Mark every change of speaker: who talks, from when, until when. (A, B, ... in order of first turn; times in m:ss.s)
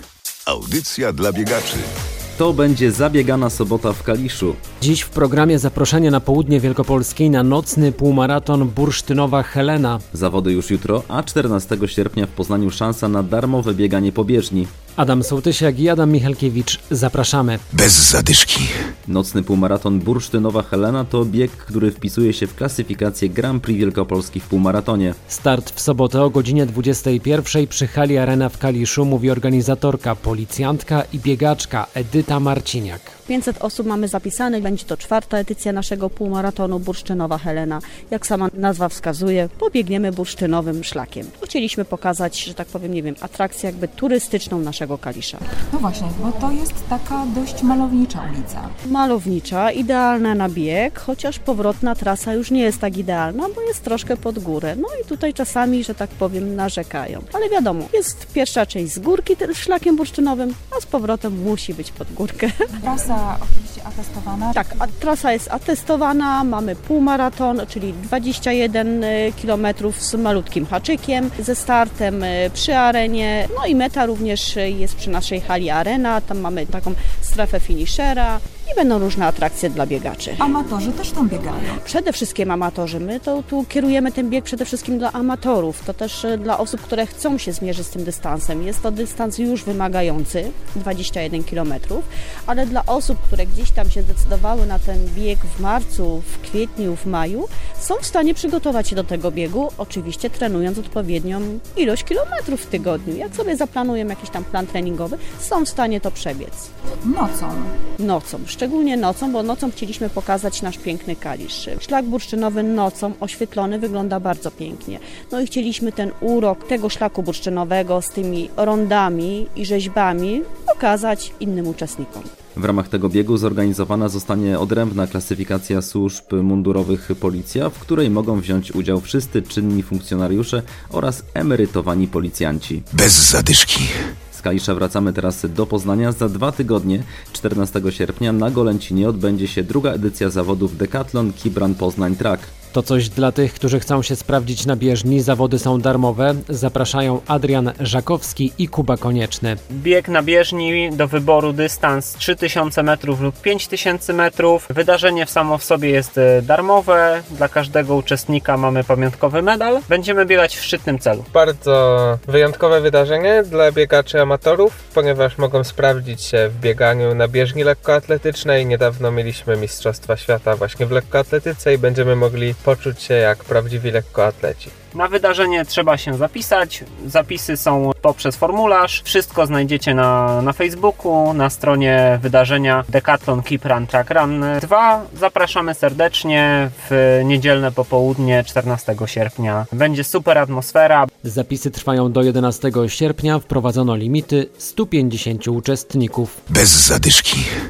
0:00.4-0:01.8 A
0:02.4-0:04.6 B
0:04.8-0:10.0 C
0:10.1-0:14.7 B
0:15.0-0:17.6 C
0:17.7-0:18.7 A
0:19.1-0:25.2 B
0:25.3-0:33.2 C
0:33.3-0:45.4 D
0:45.7-0:48.7 E
0:48.9-1:02.7 D
1:02.8-1:04.8 E
1:04.5-1:20.5 D
1:20.4-1:21.8 E
1:21.8-1:46.7 D
1:47.0-1:47.7 E
1:48.0-2:02.3 D
2:02.5-2:12.9 B
2:12.9-2:13.9 A
2:14.3-2:22.5 B
2:22.7-2:29.6 C
2:29.7-2:41.3 F
2:41.3-2:54.7 G
2:54.9-3:11.1 F
3:11.2-3:16.4 C
3:16.5-3:17.5 A